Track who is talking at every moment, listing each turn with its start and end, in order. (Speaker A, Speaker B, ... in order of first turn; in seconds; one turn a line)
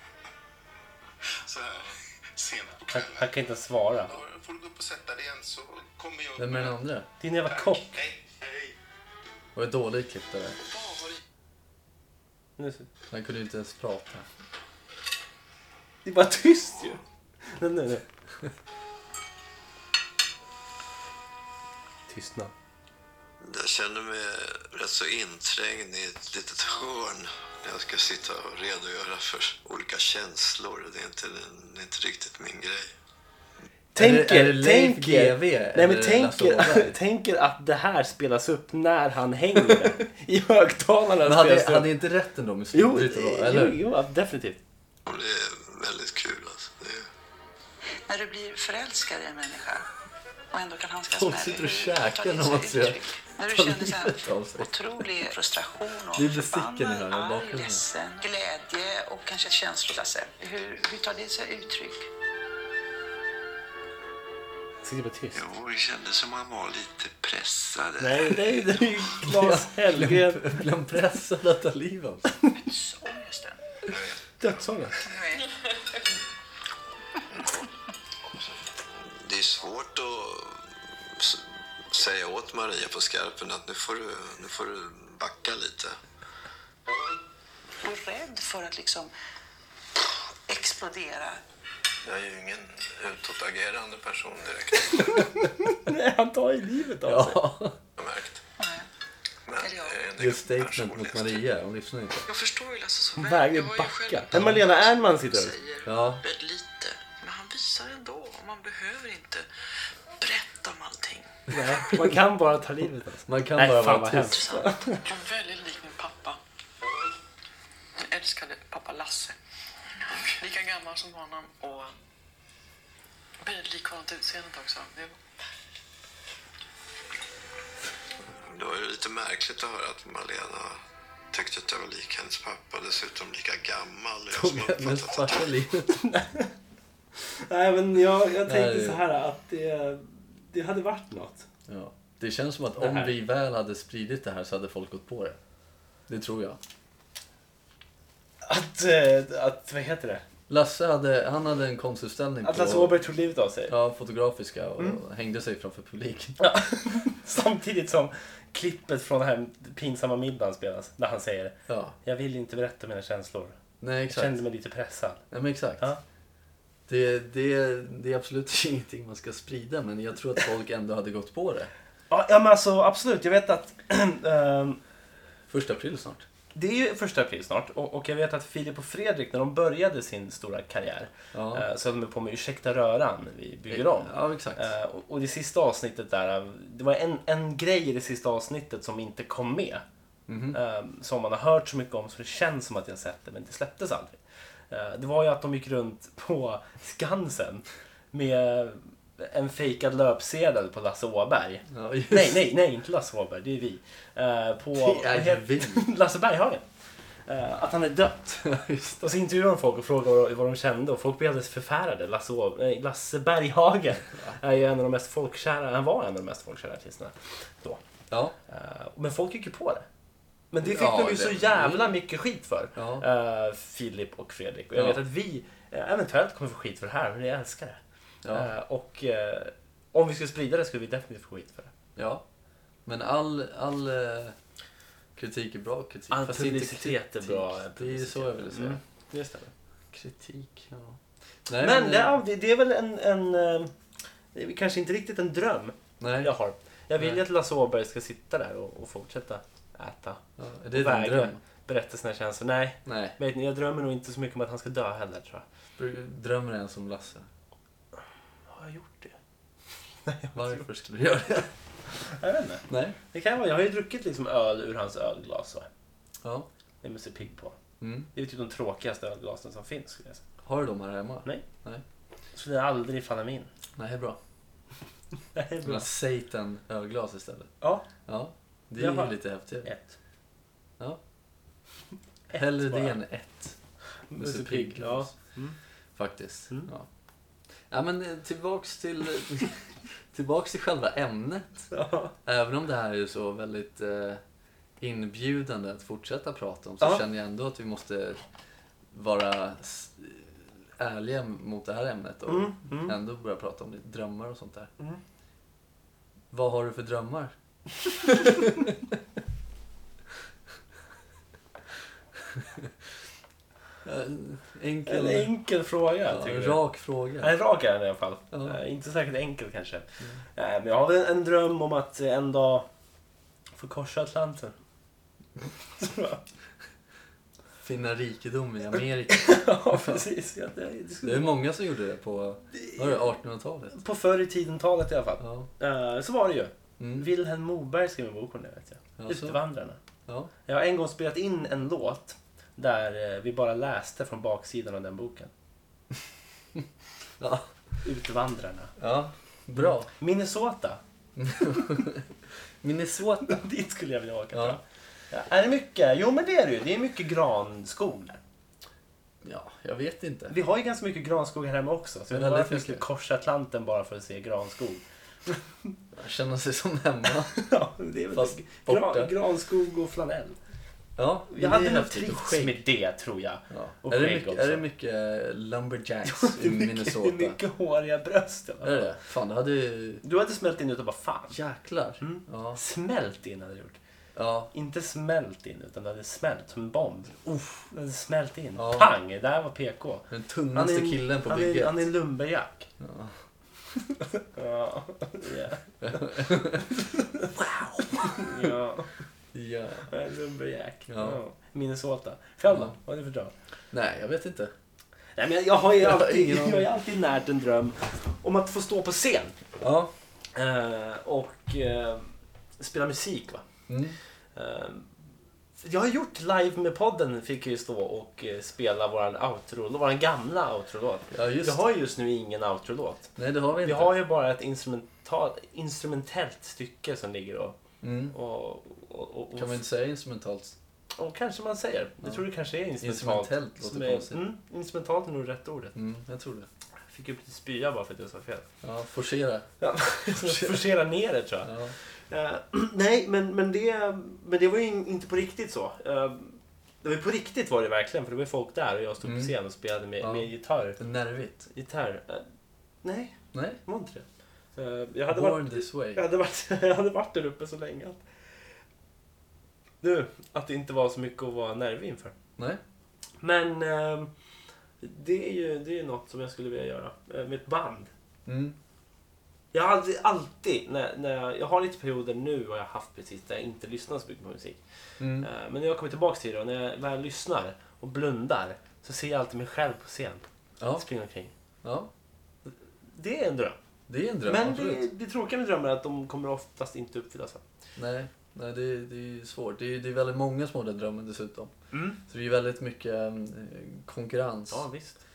Speaker A: 1.4-3.3
Speaker B: 2.9-4.2
Speaker A: 4.1-6.8
Speaker C: 6.4-7.1
Speaker B: 7.2-7.9
Speaker A: 7.5-8.8
Speaker C: 9.6-10.6
Speaker B: 12.6-12.9
Speaker C: 13.1-14.3
Speaker B: 16.1-18.1
Speaker B: 22.1-22.5
Speaker D: 23.4-32.9
Speaker B: 34.0-41.9
Speaker C: 34.0-37.0
Speaker C: 41.2-43.8
Speaker B: 42.7-44.6
Speaker D: 45.1-47.1
Speaker E: 48.1-49.9
Speaker E: 50.5-62.1
Speaker C: 51.1-55.2
Speaker C: 56.1-57.9
Speaker B: 64.8-65.4
Speaker D: 65.3-68.6
Speaker B: 68.0-70.6
Speaker C: 69.2-72.3
Speaker E: 72.5-73.6
Speaker D: 73.9-74.2
Speaker B: 74.4-75.0
Speaker E: 75.0-75.5
Speaker D: 79.0-86.0
Speaker E: 87.8-89.1
Speaker E: 90.5-91.4
Speaker D: 92.0-95.3
Speaker B: 94.9-97.4
Speaker C: 97.0-97.8
Speaker D: 98.0-98.4
Speaker E: 98.6-98.9
Speaker D: 99.5-101.4
Speaker E: 99.6-100.0
Speaker C: 100.2-102.3
Speaker E: 102.3-104.5
Speaker B: 103.2-105.6
Speaker C: 104.3-104.6
Speaker E: 105.4-109.5
Speaker C: 105.8-106.2
Speaker E: 110.2-111.5
Speaker B: 111.5-115.1
Speaker C: 111.5-112.0
Speaker C: 113.3-114.6
Speaker E: 114.3-116.4
Speaker E: 118.0-119.4
Speaker E: 120.0-122.0
Speaker E: 123.4-125.2
Speaker D: 128.4-130.8
Speaker D: 131.3-135.5
Speaker C: 134.3-136.0
Speaker B: 136.0-136.5
Speaker B: 137.2-141.5
Speaker C: 138.4-139.0
Speaker C: 141.7-145.4
Speaker B: 142.8-143.2
Speaker C: 146.1-146.6
Speaker B: 148.4-150.2
Speaker C: 150.5-153.0
Speaker B: 152.4-153.8
Speaker C: 153.7-156.4
Speaker B: 156.4-163.6
Speaker C: 161.7-161.9
Speaker C: 163.8-164.4
Speaker B: 164.1-165.2
Speaker C: 165.3-165.9
Speaker C: 166.9-171.7
Speaker B: 172.1-174.8
Speaker C: 175.5-176.3
Speaker B: 176.5-189.8
Speaker C: 181.3-181.7
Speaker C: 183.7-184.7
Speaker C: 190.3-190.6
Speaker B: 190.5-206.7
Speaker C: 201.7-202.4
Speaker C: 204.7-205.9
Speaker B: 207.3-217.8
Speaker C: 208.4-209.1
Speaker C: 218.1-218.3
Speaker B: 218.5-219.9
Speaker B: 220.5-231.7
Speaker C: 220.6-221.9
Speaker C: 222.8-223.1
Speaker C: 224.8-225.0
Speaker C: 228.2-228.5
Speaker C: 232.0-232.2
Speaker C: 232.9-234.4
Speaker C: 235.2-238.8
Speaker B: 236.1-239.5
Speaker C: 239.9-242.2
Speaker B: 241.5-243.7
Speaker B: 244.3-250.2
Speaker C: 246.0-246.3
Speaker C: 250.4-251.4
Speaker B: 250.7-255.5
Speaker C: 252.8-253.2
Speaker C: 255.8-257.3
Speaker B: 258.5-259.2
Speaker B: 260.0-260.7
Speaker C: 260.3-261.5
Speaker B: 261.9-265.7
Speaker C: 262.7-263.0
Speaker C: 266.2-266.5
Speaker B: 266.8-267.6
Speaker C: 267.8-268.1
Speaker B: 268.1-270.2
Speaker C: 270.4-271.8
Speaker B: 272.3-273.5
Speaker C: 273.8-274.2
Speaker B: 275.3-275.9
Speaker C: 275.6-277.5
Speaker B: 277.6-277.9
Speaker C: 278.1-279.7
Speaker B: 278.8-279.9
Speaker B: 282.3-283.0
Speaker C: 282.3-283.6
Speaker B: 284.1-285.6
Speaker C: 284.2-285.2
Speaker C: 286.0-286.9
Speaker C: 287.7-289.6
Speaker C: 290.1-291.7
Speaker B: 291.7-292.1
Speaker C: 292.2-294.2
Speaker C: 294.8-298.2
Speaker C: 298.9-304.7
Speaker B: 302.3-303.0
Speaker C: 306.3-307.4
Speaker C: 308.1-308.9
Speaker C: 312.3-312.7
Speaker C: 313.8-315.3
Speaker B: 314.9-316.6
Speaker C: 316.1-317.4
Speaker B: 317.2-322.7
Speaker C: 318.3-318.6
Speaker B: 323.6-324.6
Speaker B: 325.8-326.2
Speaker C: 327.6-330.0
Speaker B: 329.1-331.4
Speaker C: 331.0-333.8
Speaker B: 332.5-333.1
Speaker B: 333.7-339.8
Speaker C: 335.2-335.5
Speaker C: 336.8-337.1
Speaker C: 339.0-339.4
Speaker B: 340.5-345.3
Speaker C: 347.2-347.5
Speaker B: 347.8-348.8
Speaker C: 348.8-349.9
Speaker B: 349.6-350.8
Speaker C: 351.2-352.1
Speaker C: 352.6-353.4
Speaker B: 353.2-358.2
Speaker C: 354.3-354.6
Speaker C: 359.2-360.4
Speaker B: 360.3-365.4
Speaker C: 362.1-362.8
Speaker C: 365.9-367.4
Speaker B: 367.3-370.4
Speaker C: 368.1-369.1
Speaker C: 371.0-372.6
Speaker B: 371.3-374.6
Speaker C: 373.5-377.4
Speaker B: 376.1-378.9
Speaker C: 378.6-380.0
Speaker B: 380.0-381.4
Speaker C: 381.3-382.6
Speaker B: 382.0-383.8
Speaker C: 384.1-384.5
Speaker B: 384.5-392.7
Speaker C: 388.6-388.9
Speaker C: 390.1-391.9
Speaker C: 392.8-393.1
Speaker B: 393.9-398.9
Speaker C: 395.8-396.8
Speaker C: 397.4-398.5
Speaker C: 399.3-399.9
Speaker B: 399.9-403.3
Speaker C: 400.9-401.2
Speaker C: 402.5-402.8
Speaker C: 403.7-404.5
Speaker B: 405.2-409.4
Speaker C: 405.8-406.7
Speaker C: 409.6-409.9
Speaker B: 410.4-413.5
Speaker C: 413.7-414.0
Speaker B: 414.4-414.9
Speaker B: 415.6-427.6
Speaker C: 421.1-421.6
Speaker C: 423.2-423.9
Speaker C: 427.8-428.1
Speaker B: 428.1-429.6
Speaker C: 429.4-430.6
Speaker B: 431.0-435.8
Speaker C: 432.8-434.2
Speaker C: 435.8-436.5
Speaker B: 436.9-438.5
Speaker C: 438.6-439.5
Speaker B: 439.6-450.8
Speaker C: 440.1-440.6
Speaker C: 441.4-441.7
Speaker C: 449.0-449.3
Speaker C: 450.0-451.5
Speaker B: 451.5-452.2
Speaker B: 452.8-458.0
Speaker C: 453.3-453.6
Speaker C: 455.1-456.0
Speaker B: 459.8-462.1
Speaker B: 463.2-464.1
Speaker B: 464.8-467.9
Speaker C: 468.3-468.6
Speaker B: 469.5-474.6
Speaker C: 475.0-475.3
Speaker B: 475.1-481.3
Speaker C: 480.6-480.9
Speaker C: 481.6-481.9
Speaker B: 482.5-483.6
Speaker C: 483.9-484.8
Speaker B: 484.2-487.4
Speaker C: 487.8-494.6
Speaker B: 491.7-492.0
Speaker B: 494.5-495.0